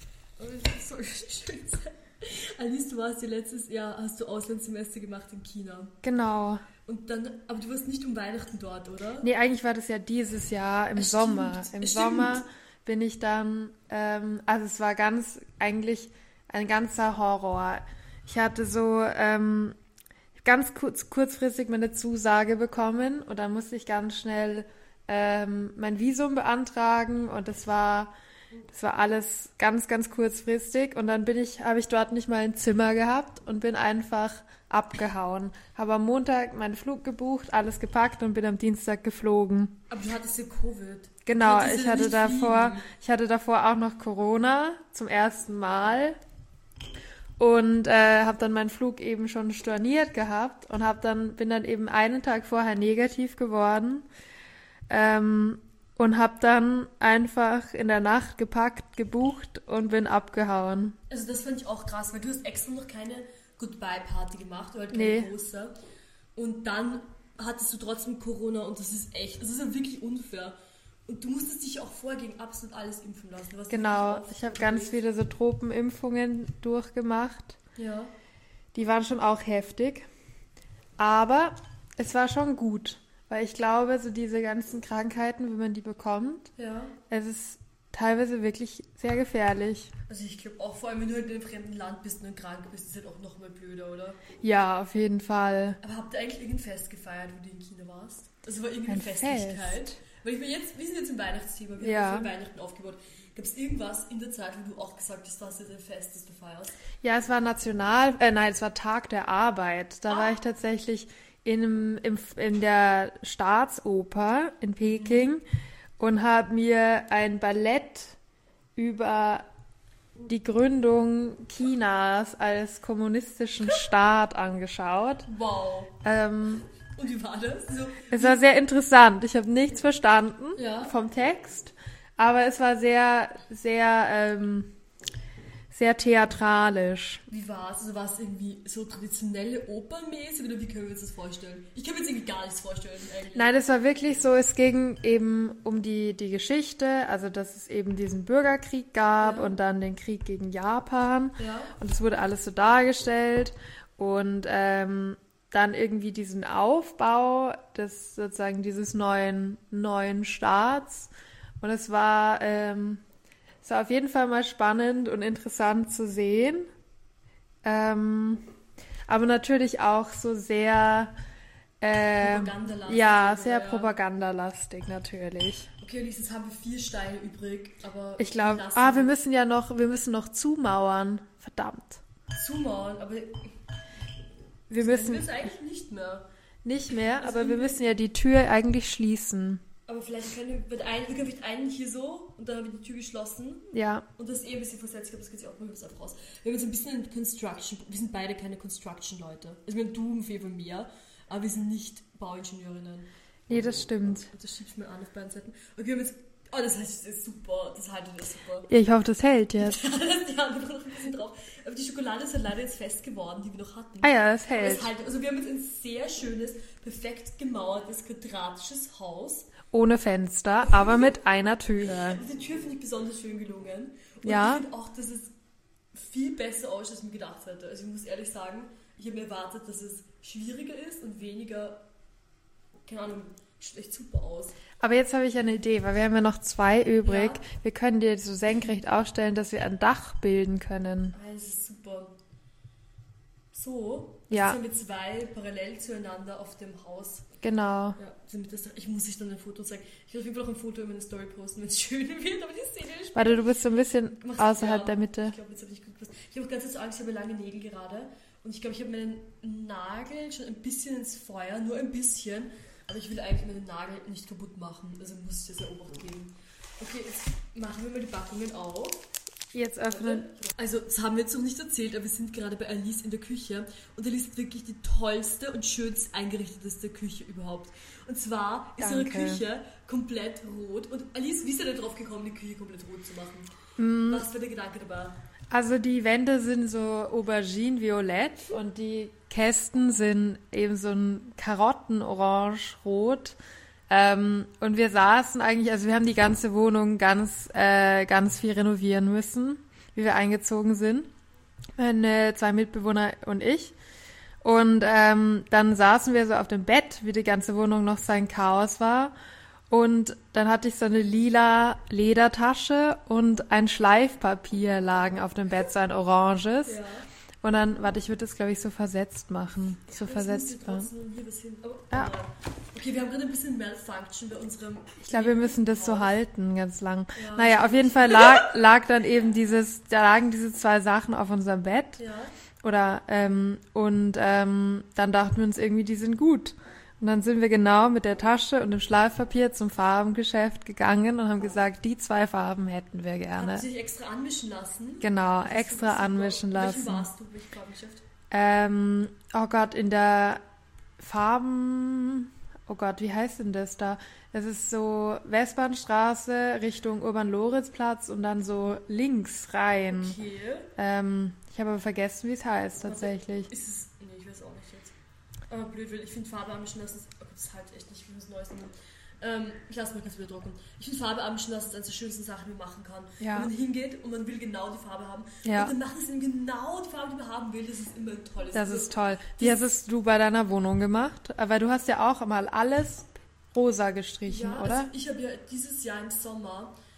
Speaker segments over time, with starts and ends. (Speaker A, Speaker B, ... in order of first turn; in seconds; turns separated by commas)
Speaker A: 0.4-6.0, Speaker B: 6.0-6.6, Speaker A: 6.9-9.3, Speaker B: 9.2-19.8, Speaker A: 11.0-12.4, Speaker B: 20.4-28.1, Speaker B: 28.7-39.8, Speaker A: 39.9-42.9, Speaker B: 41.3-46.2, Speaker B: 47.4-54.1, Speaker B: 54.9-61.0, Speaker A: 61.1-65.7, Speaker B: 64.9-65.3, Speaker A: 66.4-75.0, Speaker B: 73.7-77.6, Speaker A: 77.8-78.1, Speaker B: 78.7-80.1, Speaker B: 81.0-86.5, Speaker A: 86.6-87.0, Speaker B: 87.1-89.9, Speaker A: 90.1-94.2, Speaker B: 94.4-95.8, Speaker A: 95.8-106.8, Speaker B: 98.9-100.0, Speaker B: 101.8-102.3, Speaker B: 107.0-115.4, Speaker A: 110.1-110.4, Speaker A: 114.9-115.3, Speaker B: 116.0-118.2, Speaker B: 118.8-119.5, Speaker B: 120.3-125.3, Speaker A: 125.3-126.0, Speaker B: 126.0-126.7, Speaker A: 126.9-128.4, Speaker B: 128.1-134.7, Speaker A: 130.6-130.9, Speaker B: 135.7-137.2, Speaker A: 137.3-143.5, Speaker B: 143.3-163.0, Speaker A: 149.2-149.5, Speaker A: 151.4-151.8, Speaker B: 163.6-166.7, Speaker B: 167.6-168.4, Speaker B: 169.1-171.1, Speaker B: 171.8-175.7, Speaker A: 172.2-173.9, Speaker A: 175.8-179.2, Speaker B: 178.2-182.0, Speaker A: 182.3-183.5, Speaker B: 184.7-185.4, Speaker A: 184.8-186.3, Speaker B: 186.7-189.6, Speaker A: 187.1-187.8, Speaker A: 189.9-203.1, Speaker B: 193.7-194.1, Speaker B: 203.5-204.3, Speaker A: 204.3-208.7, Speaker B: 208.7-209.8, Speaker A: 209.6-219.5, Speaker B: 214.0-214.9, Speaker B: 219.7-222.2, Speaker A: 220.7-221.0, Speaker A: 221.8-225.3, Speaker B: 224.2-224.7, Speaker A: 225.9-231.8, Speaker A: 232.9-234.6, Speaker B: 234.8-241.2, Speaker A: 237.0-237.4, Speaker A: 241.1-242.2, Speaker A: 243.5-247.3, Speaker B: 244.3-244.6, Speaker B: 247.4-248.0, Speaker A: 248.0-253.5, Speaker B: 253.2-255.4, Speaker A: 254.1-269.0, Speaker B: 269.5-270.3, Speaker A: 269.9-283.5, Speaker B: 278.8-279.4, Speaker B: 283.8-284.3, Speaker A: 284.1-285.2, Speaker B: 285.5-293.4, Speaker B: 293.9-301.1, Speaker B: 301.8-303.8, Speaker B: 304.4-309.1, Speaker B: 309.7-316.8, Speaker A: 316.7-317.1, Speaker B: 317.4-320.9, Speaker A: 319.9-326.1, Speaker B: 325.0-332.0, Speaker A: 327.2-328.5, Speaker A: 332.0-332.3, Speaker B: 332.6-343.7, Speaker A: 343.4-348.1, Speaker B: 345.0-347.1, Speaker B: 348.3-350.4, Speaker B: 351.0-360.2, Speaker A: 359.9-360.7, Speaker B: 360.8-363.5, Speaker A: 362.9-364.9, Speaker A: 365.5-379.6, Speaker B: 373.2-373.5, Speaker B: 375.4-375.7, Speaker B: 378.5-384.9, Speaker A: 384.3-386.7